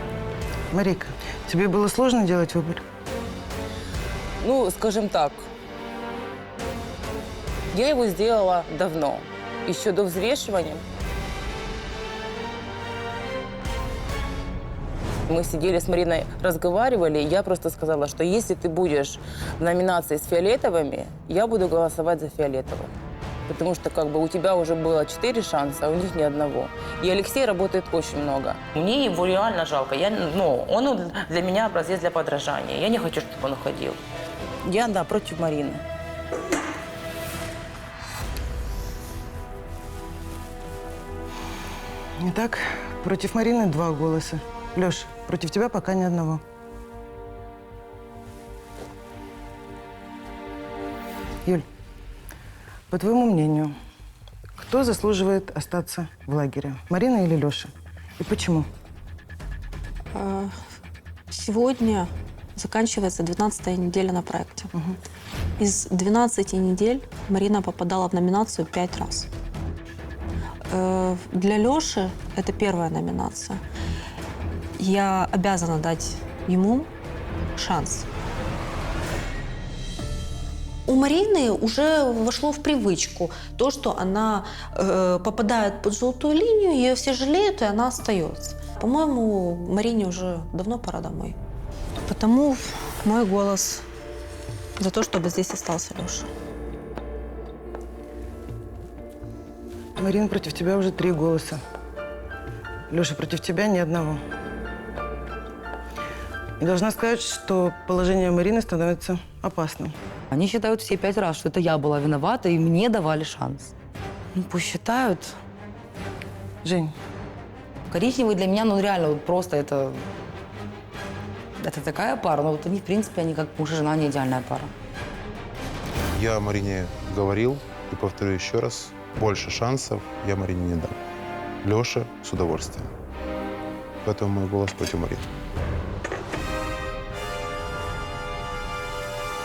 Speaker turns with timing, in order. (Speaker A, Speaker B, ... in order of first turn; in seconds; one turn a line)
Speaker A: 0.7-2.8
Speaker B: 4.4-5.5
Speaker B: 7.7-10.8
Speaker B: 15.3-22.9
Speaker B: 23.5-34.0
Speaker B: 34.6-35.8
Speaker A: 42.2-46.4
Speaker A: 52.9-53.7
Speaker A: 54.6-58.7
Speaker C: 60.1-60.5
Speaker C: 61.3-64.7
Speaker C: 65.6-69.3
Speaker C: 70.7-73.6
Speaker C: 74.8-76.9
Speaker C: 77.6-78.1
Speaker C: 80.9-91.3
Speaker C: 92.1-93.8
Speaker C: 94.8-96.3
Speaker A: 100.0-101.6
Speaker A: 102.9-104.2
Speaker A: 106.6-109.9
Speaker D: 110.3-113.7
Speaker D: 114.3-115.3
Speaker A: 116.6-116.9
Speaker D: 117.9-120.0
Speaker D: 121.6-124.7
Speaker E: 126.1-131.0
Speaker E: 131.6-132.9
Speaker E: 134.0-135.2